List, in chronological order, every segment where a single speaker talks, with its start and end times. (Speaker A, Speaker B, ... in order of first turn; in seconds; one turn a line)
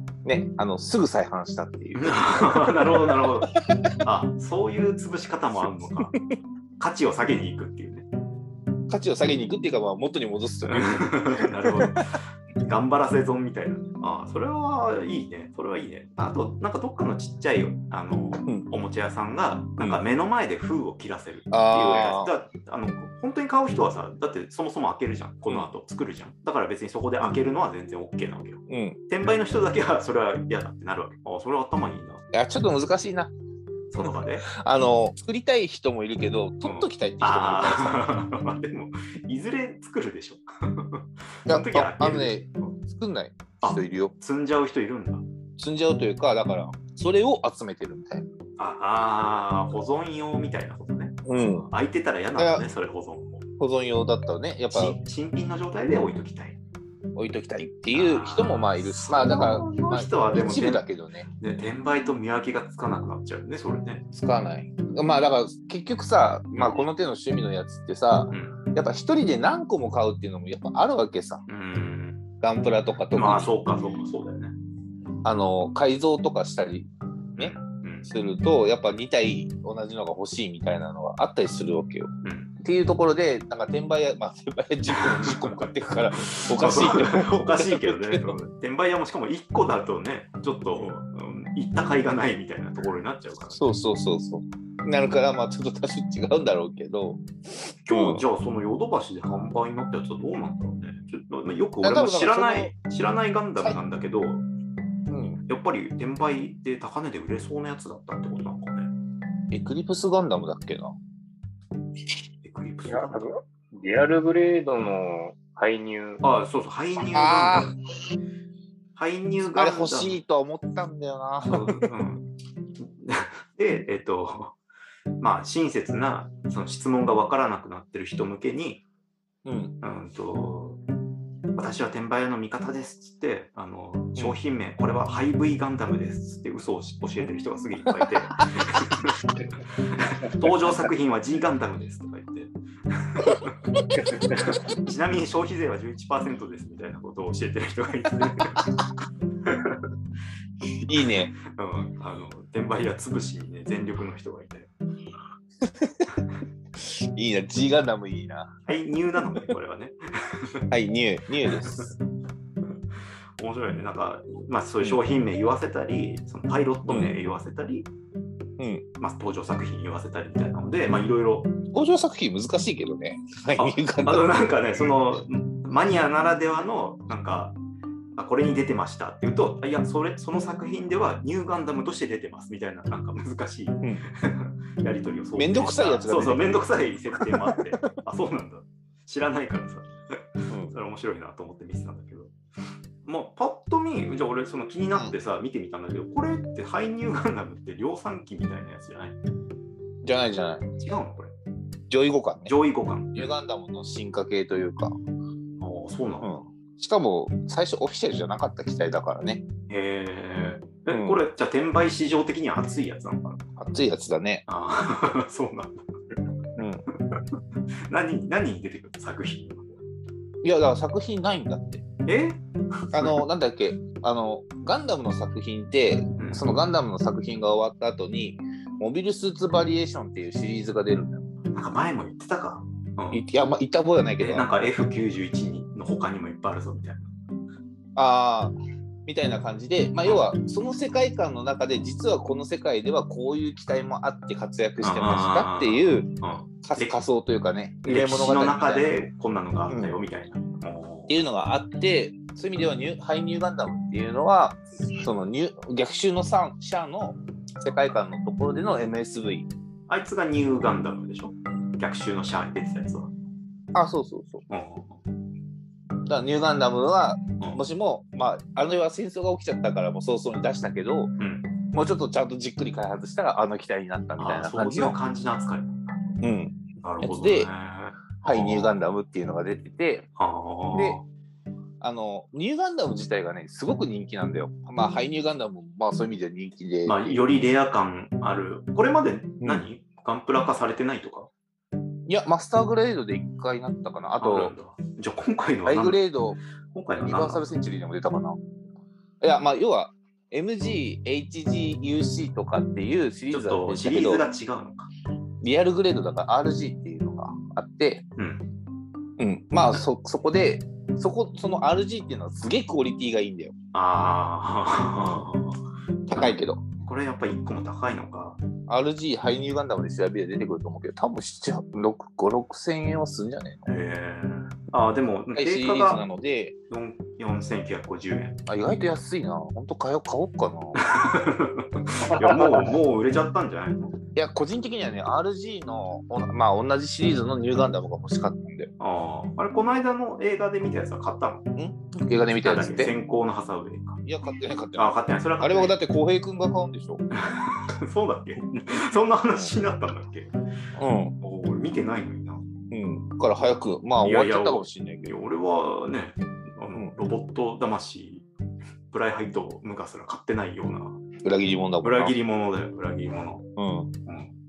Speaker A: 0.2-3.8
Speaker B: 1.9-6.2
Speaker B: 6.8-8.1
Speaker A: 8.9-11.9
Speaker B: 10.7-32.2
Speaker A: 18.4-18.7
Speaker A: 21.5-22.3
Speaker A: 28.7-29.0
Speaker A: 32.3-33.3
Speaker B: 33.9-34.5
Speaker A: 34.0-38.0
Speaker B: 36.6-42.7
Speaker A: 41.5-44.1
Speaker B: 43.6-45.2
Speaker A: 45.6-48.3
Speaker B: 48.6-53.4
Speaker A: 51.2-51.7
Speaker A: 52.4-52.7
Speaker A: 53.6-55.0
Speaker B: 54.7-56.6
Speaker A: 57.1-61.3
Speaker B: 57.9-60.8
Speaker B: 61.4-64.0
Speaker A: 64.1-71.4
Speaker B: 66.5-66.8
Speaker B: 68.3-68.6
Speaker B: 71.5-72.2
Speaker A: 72.4-73.5
Speaker B: 73.1-74.5
Speaker A: 75.2-88.3
Speaker B: 77.3-78.1
Speaker B: 82.2-82.5
Speaker B: 84.9-85.7
Speaker B: 86.2-93.6
Speaker A: 93.5-98.2
Speaker B: 97.8-104.4
Speaker A: 101.8-102.7
Speaker A: 105.1-105.4
Speaker B: 105.5-108.9
Speaker A: 109.5-111.0
Speaker B: 112.4-113.3
Speaker C: 112.9-116.2
Speaker B: 116.2-117.7
Speaker A: 117.1-117.7
Speaker B: 119.0-120.2
Speaker A: 119.4-121.8
Speaker B: 121.4-122.2
Speaker B: 122.8-124.6
Speaker B: 125.2-128.8
Speaker A: 129.4-129.7
Speaker B: 129.8-130.8
Speaker B: 131.5-139.2
Speaker B: 140.2-143.6
Speaker A: 143.9-144.5
Speaker B: 144.2-148.7
Speaker B: 149.4-149.8
Speaker A: 150.8-151.3
Speaker B: 151.4-154.7
Speaker A: 155.6-156.1
Speaker A: 156.8-158.6
Speaker B: 158.7-160.6
Speaker A: 160.7-161.9
Speaker B: 161.5-161.9
Speaker B: 163.4-167.9
Speaker A: 166.8-167.1
Speaker A: 168.6-168.8
Speaker B: 169.0-171.5
Speaker A: 171.7-174.5
Speaker B: 173.6-177.6
Speaker B: 178.2-189.9
Speaker A: 185.3-186.6
Speaker A: 187.3-187.5
Speaker B: 190.4-192.3
Speaker A: 190.5-190.7
Speaker B: 193.0-199.2
Speaker A: 200.0-200.7
Speaker B: 200.8-201.3
Speaker A: 201.9-202.5
Speaker B: 202.4-203.3
Speaker A: 203.1-204.9
Speaker B: 205.6-206.3
Speaker A: 206.2-209.4
Speaker B: 209.7-213.4
Speaker A: 210.9-211.2
Speaker A: 213.6-214.4
Speaker B: 214.5-216.2
Speaker A: 216.6-216.8
Speaker B: 217.9-219.8
Speaker A: 220.4-221.8
Speaker B: 222.1-223.2
Speaker A: 222.9-231.3
Speaker B: 226.2-226.4
Speaker B: 231.5-233.2
Speaker A: 233.1-234.5
Speaker B: 234.2-237.1
Speaker A: 237.9-238.5
Speaker A: 239.1-246.1
Speaker B: 244.8-247.0
Speaker A: 246.6-249.1
Speaker B: 247.8-251.1
Speaker A: 249.7-249.9
Speaker A: 251.1-259.5
Speaker B: 259.9-263.1
Speaker A: 263.7-264.4
Speaker B: 264.5-265.0
Speaker A: 266.1-271.1
Speaker B: 271.2-271.5
Speaker A: 271.7-275.0
Speaker B: 274.2-276.0
Speaker A: 276.2-277.5
Speaker B: 276.8-278.9
Speaker A: 278.2-280.1
Speaker B: 280.2-281.0
Speaker A: 280.7-281.0
Speaker A: 281.8-287.2
Speaker B: 286.8-291.3
Speaker A: 289.4-289.7
Speaker A: 292.1-294.5
Speaker B: 294.2-296.1
Speaker A: 295.6-296.4
Speaker B: 296.7-297.4
Speaker A: 297.0-298.4
Speaker A: 299.2-304.2
Speaker B: 303.3-304.9
Speaker A: 305.4-308.1
Speaker B: 308.2-308.4
Speaker A: 309.2-313.5
Speaker B: 313.7-315.6
Speaker A: 316.1-316.6
Speaker B: 316.8-318.4
Speaker A: 318.7-323.7
Speaker B: 323.6-326.1
Speaker A: 325.3-326.5
Speaker B: 326.7-328.3
Speaker A: 328.5-330.9
Speaker B: 330.8-333.9
Speaker A: 334.1-338.7
Speaker B: 338.8-341.4
Speaker A: 341.6-342.9
Speaker B: 342.4-344.0
Speaker A: 344.0-347.0
Speaker B: 344.7-345.8
Speaker B: 347.1-350.3
Speaker A: 350.8-351.1
Speaker B: 351.2-352.4
Speaker A: 352.7-355.1
Speaker B: 354.0-358.3
Speaker B: 358.9-361.0
Speaker A: 361.2-362.1
Speaker B: 361.8-363.4
Speaker A: 363.6-363.9
Speaker B: 364.1-364.3